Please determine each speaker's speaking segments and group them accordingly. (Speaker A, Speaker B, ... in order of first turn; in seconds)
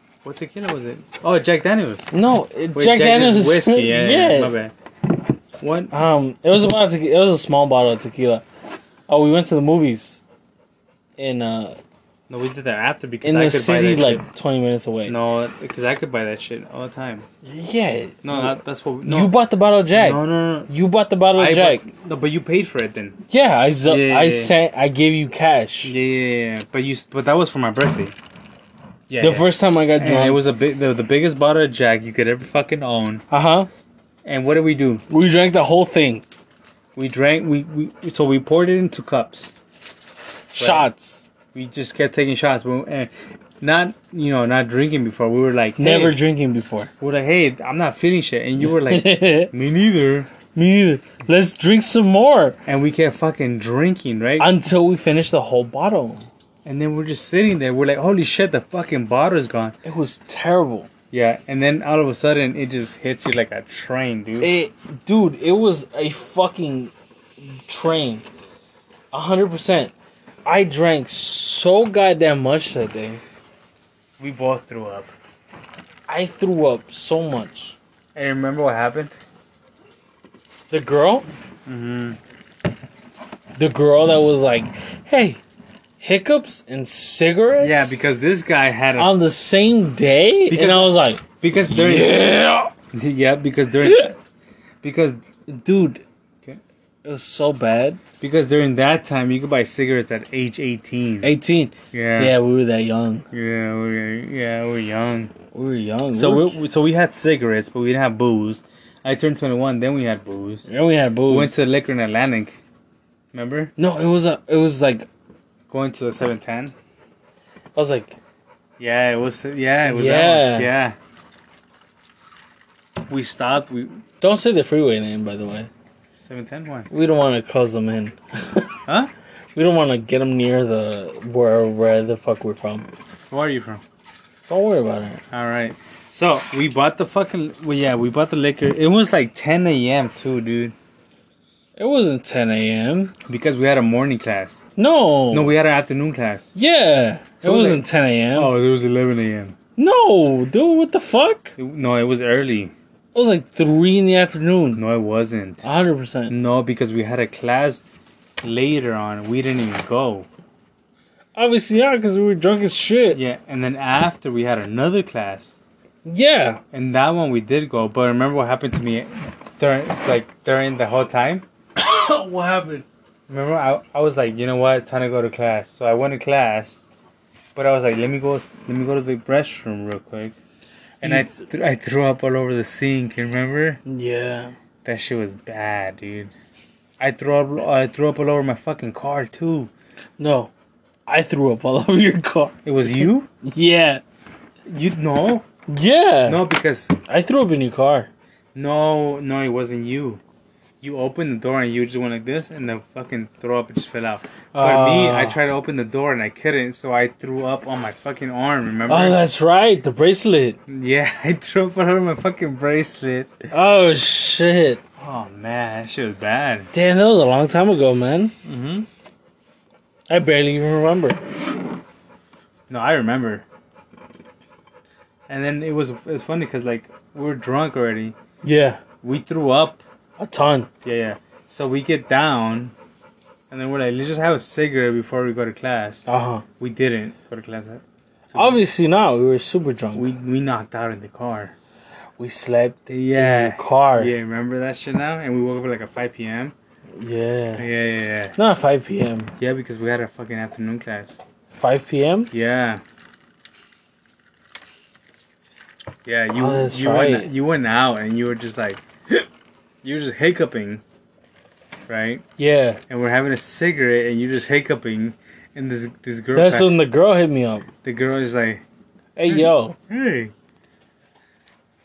Speaker A: 0.2-2.1, 2.7-4.7, 5.6-5.9, 12.3-14.2, 15.1-17.3, 18.2-19.3, 19.9-20.7, 21.4-23.2, 23.9-24.6, 25.8-28.2, 29.1-33.2, 34.2-35.0, 37.0-39.6, 40.6-40.9, 41.5-46.2, 47.0-50.3, 52.7-54.5, 56.6-59.8, 61.1-64.5, 74.2-75.1, 78.2-79.1, 81.7-82.2, 87.6-89.2, 90.5-92.4, 92.9-94.1, 94.8-96.6, 98.2-101.3, 101.9-102.4, 103.3-105.3, 106.1-110.7, 111.3-112.6, 113.3-113.7, 115.7-116.8, 118.8-121.0, 123.1-124.0, 126.2-126.9, 133.3-133.8, 135.3-140.8, 143.3-144.6, 145.3-146.5, 147.4-149.6, 151.6-152.7, 154.8-155.7, 156.3-157.8, 158.4-160.3, 163.1-165.6, 166.7-171.5, 173.3-176.8, 177.6-180.3, 181.0-183.8, 184.8-186.3, 187.0-189.7, 192.7-193.3, 194.7-195.5, 196.3-196.9, 198.6-200.2, 200.8-209.2, 210.7-213.4, 215.0-216.7, 218.4-218.9, 222.7-223.5, 225.3-228.2, 229.0-229.8, 230.8-232.7, 233.5-236.1, 236.6-238.6, 239.9-241.5, 242.9-246.6, 247.6-248.4, 249.4-251.2, 252.3-252.8, 256.1-259.3, 259.8-260.8, 261.9-262.2, 262.9-266.7, 267.8-268.6, 269.3-270.3
Speaker B: 2.1-4.5, 5.9-8.4, 9.1-10.2, 11.2-11.8, 13.2-15.2, 17.4-21.9, 23.3-25.9, 29.2-30.4, 33.3-33.7, 35.1-36.2, 40.5-41.3, 45.8-46.9, 48.6-49.5, 50.5-52.6, 54.4-56.3, 59.8-60.9, 64.4-68.3, 69.1-69.9, 70.5-73.2, 76.1-77.8, 80.7-81.3, 83.6-85.4, 86.0-88.0, 89.0-92.7, 93.8-94.1, 97.0-98.0, 101.2-103.3, 105.5-106.6, 110.7-111.6, 113.8-115.1, 117.8-118.2, 119.8-120.7, 124.2-125.7, 126.9-128.8, 129.6-132.9, 134.5-135.2, 141.8-143.1, 144.8-145.6, 146.6-148.5, 149.8-151.5, 153.2-154.8, 155.6-156.3, 161.4-163.2, 166.1-166.6, 171.8-172.8, 181.0-181.3, 183.9-184.5, 190.2-190.5, 191.1-194.0, 195.7-196.5, 197.1-198.1, 204.5-205.4, 208.9-210.6, 213.5-214.8, 216.7-218.3, 220.1-221.2, 228.4-228.8, 230.2-230.7, 236.1-236.4, 238.3-240.1, 242.2-244.1, 247.0-247.7, 248.3-249.3, 251.6-252.3, 256.4-257.3, 262.4-262.8, 266.3-267.7, 269.2-269.8